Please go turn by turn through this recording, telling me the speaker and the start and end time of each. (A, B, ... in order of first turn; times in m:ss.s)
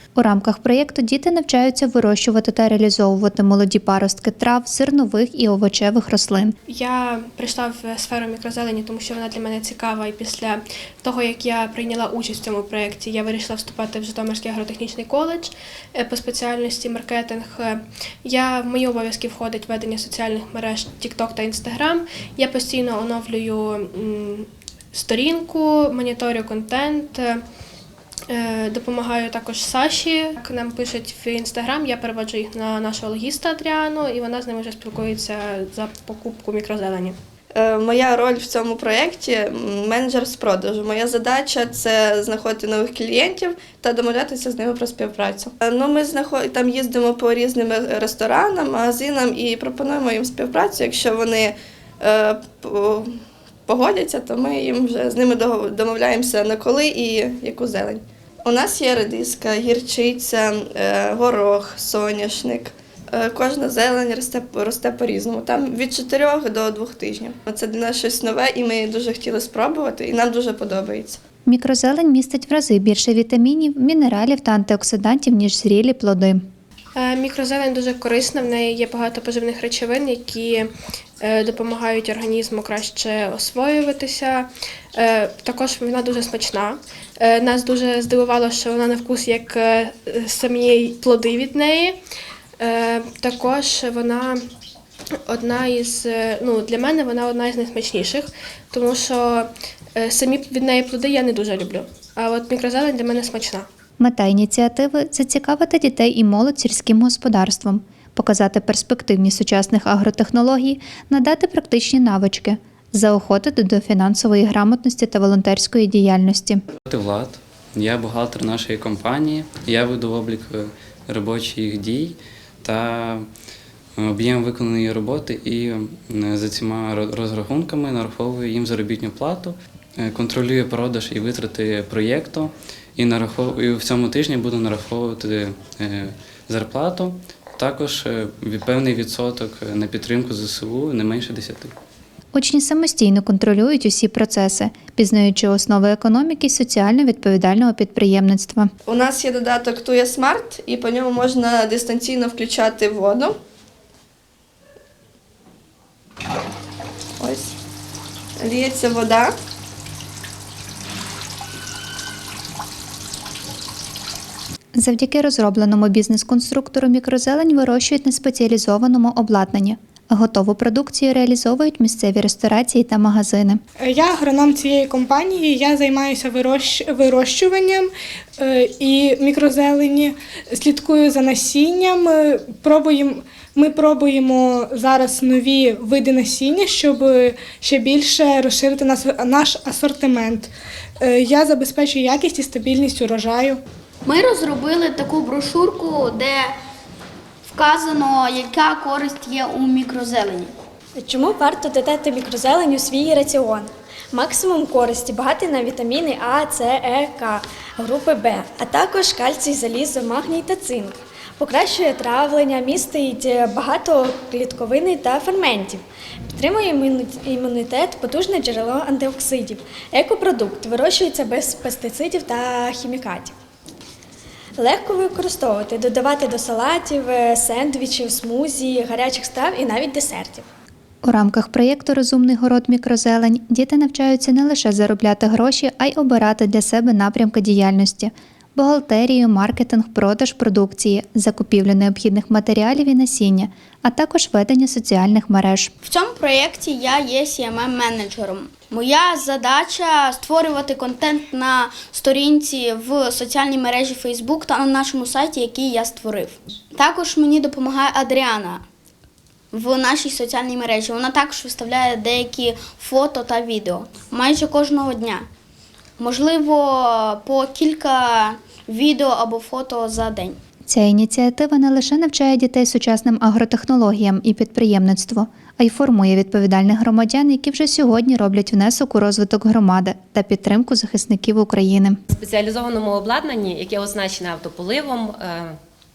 0:00.2-0:06.5 A
0:06.7-0:27.4 B
0:28.3-0:37.2 B
0:37.5-0:53.2 C
0:53.7-1:11.2 C
1:11.5-1:16.4 A
1:17.0-1:20.7 B
1:21.2-1:32.0 B
1:32.6-1:34.4 B
1:35.2-1:43.6 B
1:44.0-1:56.6 A
1:56.8-2:03.3 D
2:04.0-2:21.8 D
2:22.3-2:28.7 A
2:28.8-2:33.3 C
2:37.2-2:37.6 C
2:38.4-2:39.3 C
2:44.8-2:53.6 A
2:53.8-2:57.9 E
2:58.4-3:10.5 E
3:11.0-3:13.6 E
3:14.0-3:16.6 F
3:17.5-3:20.5 F
3:21.0-3:43.3 G
3:44.6-3:50.4 G
3:51.0-4:05.7 A
4:05.8-4:18.6 F
4:19.5-4:25.3 F
4:26.0-4:30.4 F
4:30.7-4:42.0 A
4:42.1-4:45.5 H